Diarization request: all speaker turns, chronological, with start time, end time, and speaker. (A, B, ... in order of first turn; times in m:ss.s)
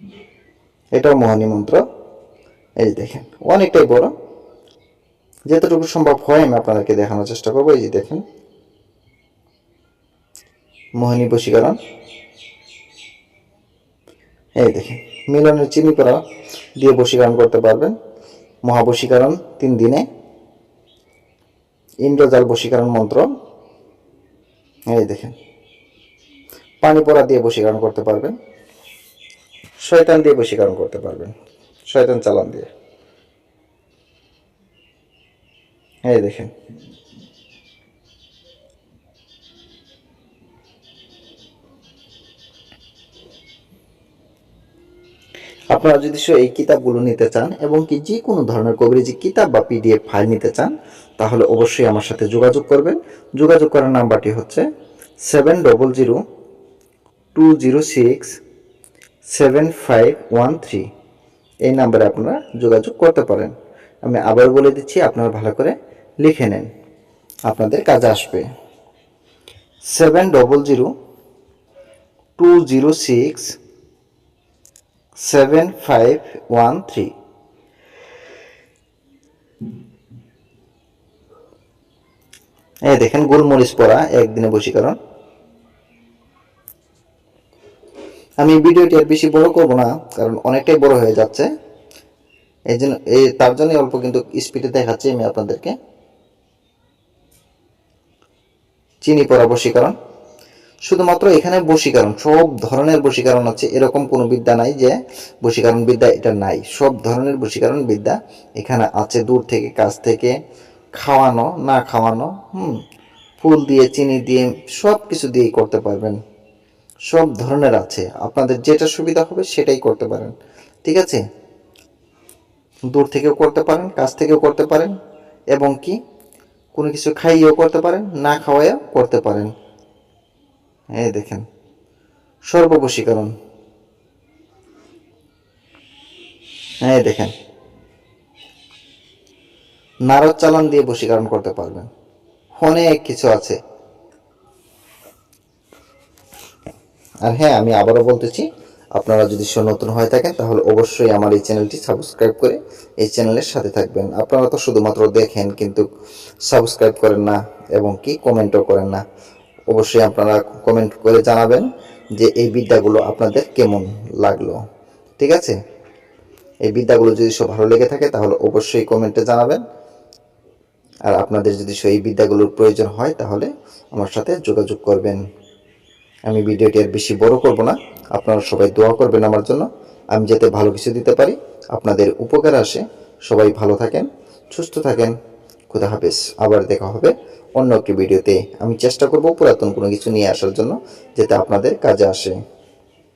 0:01.0-0:01.8 A
0:02.8-0:04.1 A
0:05.5-0:08.2 A
0:11.0-0:11.8 A
0:14.6-0:16.2 A
0:16.8-0:18.0 A
0:18.6-0:20.0 A
0:22.0-0:23.3 A
0:24.9-0:25.4 A
0:26.8-0:28.3 A
0:29.8-0:31.3 A
0:31.9-0:32.7 A
0:36.1-0:36.5 A
0:45.7-0:54.6 A
0:55.3-0:56.2 A
0:57.4-0:58.3 A
0:59.3-1:00.9 A
1:01.7-1:03.5 A
1:04.0-1:06.7 A
1:07.5-1:08.5 A
1:09.9-1:10.9 A
1:12.4-1:13.6 A
1:15.2-1:17.1 A
1:22.9-1:25.0 A
1:28.4-1:31.5 A
1:32.7-1:35.8 A
1:39.0-1:40.0 A
1:40.9-1:50.3 A
1:51.0-1:52.8 A
1:53.4-1:56.2 A
1:57.1-2:00.3 A
2:00.8-2:01.2 A
2:02.9-2:04.9 A
2:05.5-2:06.0 A
2:06.7-2:09.5 A
2:11.0-2:11.4 A
2:12.5-2:13.3 A
2:16.8-2:17.3 A
2:20.1-2:21.9 A
2:22.6-2:23.6 A
2:27.3-2:35.9 A
2:36.5-2:39.0 A
2:39.7-2:44.6 A
2:45.2-2:45.6 A
2:46.7-2:49.6 A
2:51.1-2:55.2 A
2:56.3-3:05.2 A
3:05.7-3:12.4 A